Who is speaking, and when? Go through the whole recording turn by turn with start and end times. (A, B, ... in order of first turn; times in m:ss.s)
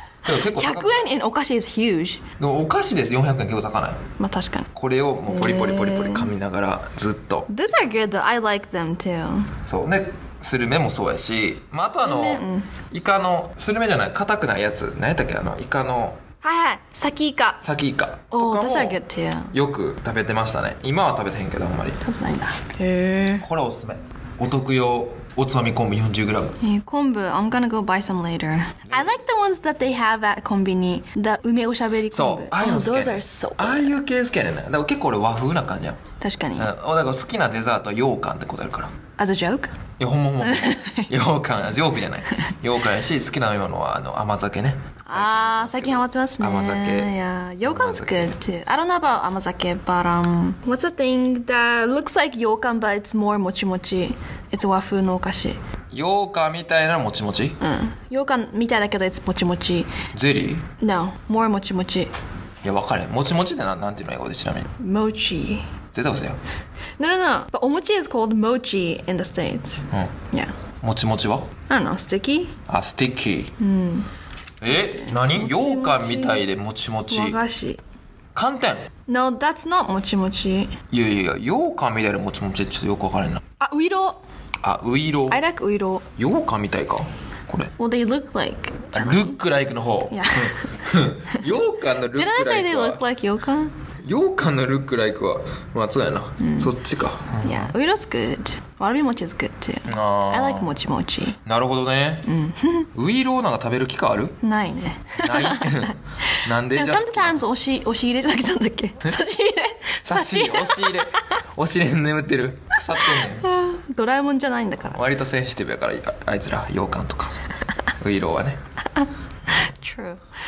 0:00.2-0:01.1 A
0:00.4-0:02.2 B
0:02.4-0:04.0 A
0:04.2-0:04.7 B
0:04.8-0:07.5 A
0:05.3-0:06.3 B
0:07.5-0:09.5 B
0:09.6-0:16.2 A
0:12.0-0:12.7 B
0:16.4-0:17.6 B
0:17.6-0:19.0 A
0:18.3-0:19.5 B
0:19.5-0:22.0 A
0:22.0-0:23.4 B
0:23.4-0:26.6 A
0:26.6-0:34.0 B
0:32.1-0:36.0 A
0:36.2-0:36.7 B
0:36.6-0:38.9 A
0:39.2-0:39.7 B
0:40.0-0:47.1 A
0:40.4-0:41.1 B
0:45.0-0:55.6 B
0:47.6-0:48.3 A
0:55.9-0:57.6 A
0:57.6-0:59.9 B
1:00.1-1:00.6 A
1:00.8-1:02.1 B
1:02.6-1:04.6 A
1:04.8-1:05.6 B
1:05.9-1:06.4 A
1:07.0-1:10.5 B
1:10.8-1:11.5 A
1:11.7-1:12.5 B
1:12.7-1:13.5 A
1:13.6-1:14.1 B
1:14.6-1:17.4 A
1:15.0-1:16.5 B
1:17.1-1:17.8 B
1:18.3-1:18.8 A
1:19.1-1:20.7 B
1:20.9-1:23.4 A
1:23.6-1:24.2 B
1:24.6-1:25.4 A
1:25.3-1:26.0 B
1:26.2-1:27.7 A
1:27.8-1:29.4 B
1:28.9-1:33.0 A
1:30.1-1:31.3 B
1:32.1-1:33.7 B
1:34.0-1:37.7 A
1:36.4-1:36.7 B
1:37.4-1:41.4 B
1:39.9-1:40.7 A
1:41.4-1:42.2 A
1:42.2-1:42.9 B
1:42.9-1:44.4 A
1:44.4-1:51.1 B
1:45.2-1:47.4 A
1:50.0-1:53.5 A
1:53.0-1:55.0 B
1:54.9-1:57.3 A
1:58.0-1:58.6 A
1:59.0-2:00.2 B